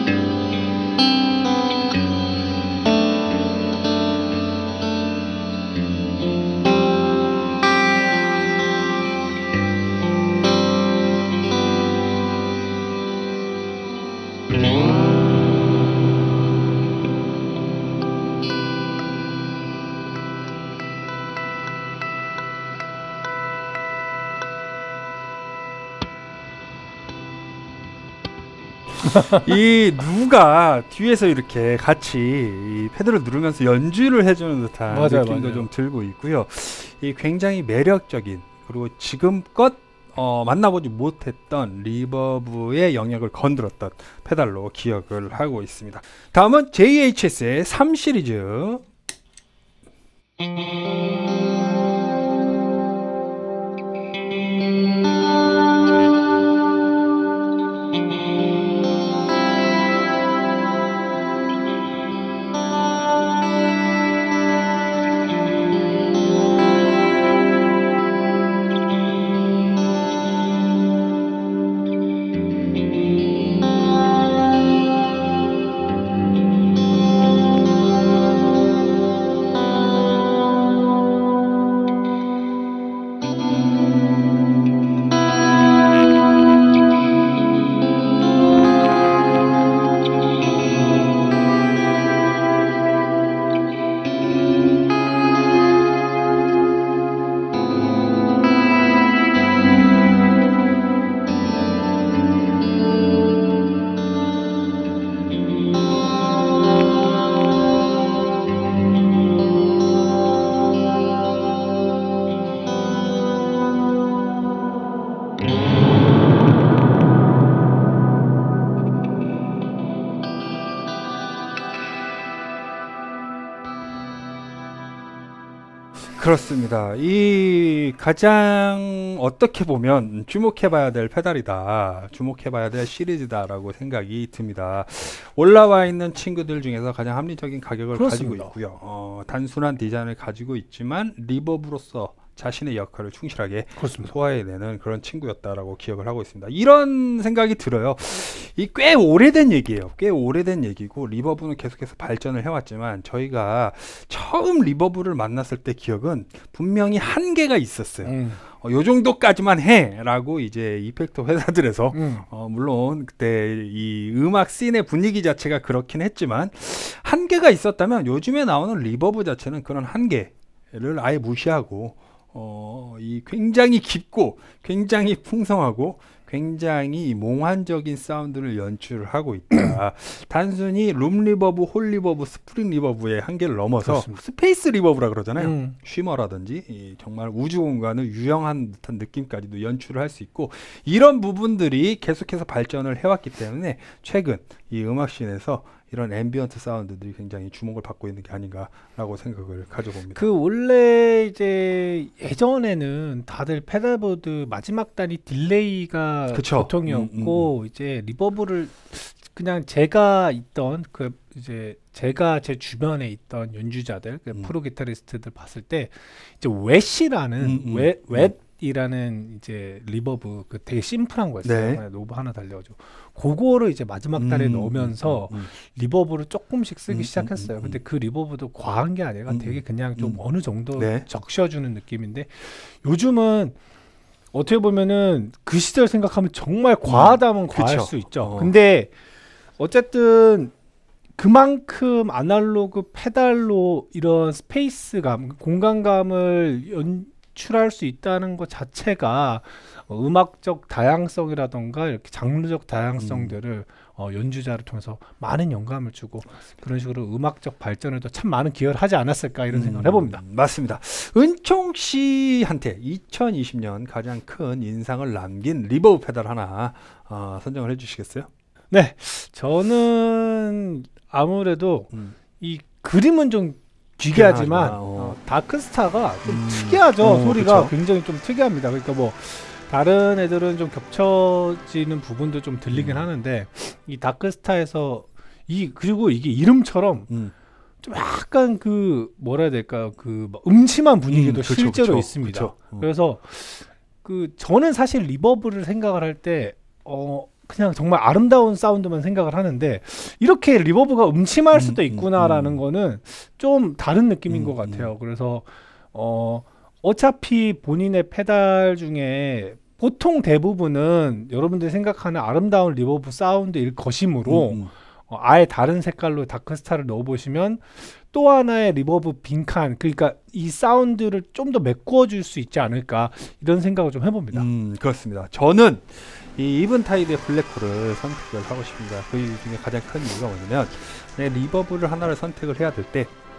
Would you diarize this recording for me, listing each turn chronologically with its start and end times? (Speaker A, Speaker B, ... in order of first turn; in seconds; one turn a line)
Speaker A: 28.9-48.9
Speaker B: 34.9-35.7
Speaker A: 126.2-200.3
Speaker B: 137.9-138.5
Speaker B: 143.8-144.1
Speaker B: 158.1-158.4
Speaker B: 161.9-162.3
Speaker B: 183.8-184.2
Speaker B: 185.4-185.8
Speaker B: 200.2-233.6
Speaker A: 206.3-207.5
Speaker A: 217.4-218.3
Speaker A: 221.4-221.8
Speaker A: 224.2-225.5
Speaker A: 226.9-227.8
Speaker A: 229.3-230.2
Speaker A: 230.8-231.1
Speaker B: 234.3-238.9
Speaker A: 236.9-238.5
Speaker B: 239.6-240.5
Speaker B: 241.2-260.2
Speaker A: 253.0-253.4
Speaker A: 259.5-268.3
Speaker B: 268.7-287.1
Speaker A: 274.1-275.2
Speaker A: 276.2-277.7
Speaker A: 282.7-283.1
Speaker A: 287.1-287.3
Speaker B: 287.8-324.5
Speaker A: 291.1-292.9
Speaker A: 301.5-302.6
Speaker A: 304.3-304.9
Speaker A: 314.3-314.7
Speaker A: 324.3-333.1